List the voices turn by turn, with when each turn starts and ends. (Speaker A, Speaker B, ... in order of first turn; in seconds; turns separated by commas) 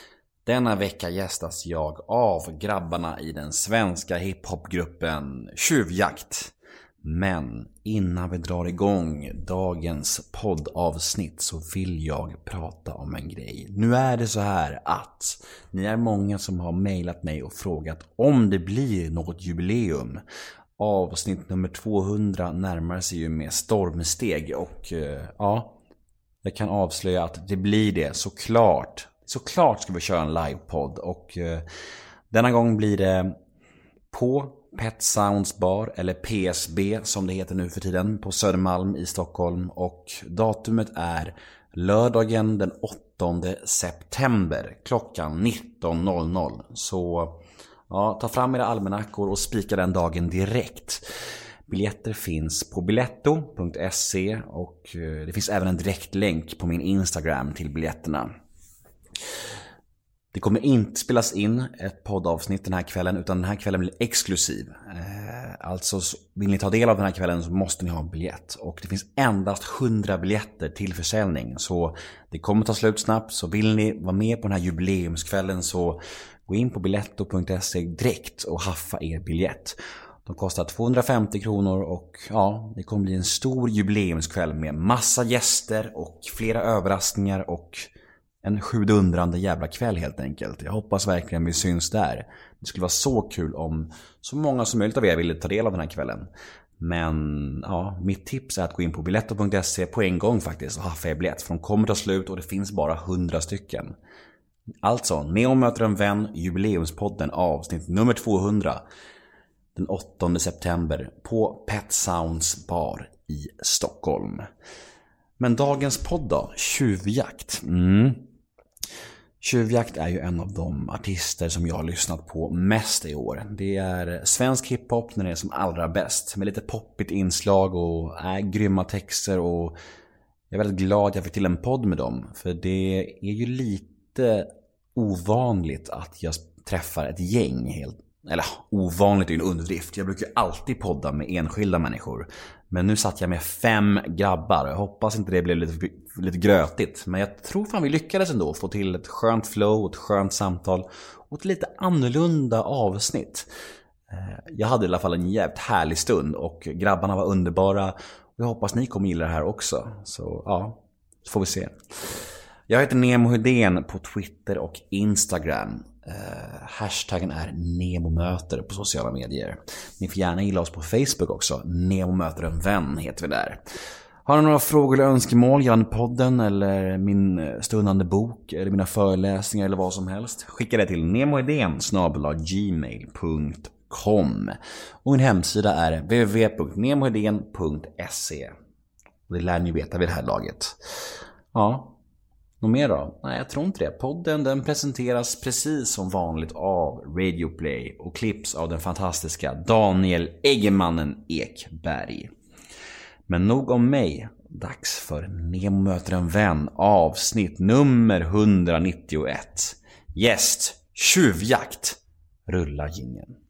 Speaker A: 0.5-6.5, Speaker A: 7.0-20.2, Speaker A: 20.8-25.8, Speaker A: 26.4-31.6, Speaker A: 32.3-33.4, Speaker A: 34.1-51.0, Speaker A: 51.7-58.3, Speaker A: 60.3-87.9, Speaker A: 88.4-96.3, Speaker A: 96.8-103.9, Speaker A: 104.8-108.8, Speaker A: 109.7-114.5, Speaker A: 115.4-118.3, Speaker A: 119.4-129.8, Speaker A: 130.5-153.5, Speaker A: 154.1-161.8, Speaker A: 162.7-173.6, Speaker A: 174.2-188.5, Speaker A: 189.3-190.8, Speaker A: 191.5-191.9, Speaker A: 192.6-202.3, Speaker A: 203.3-213.3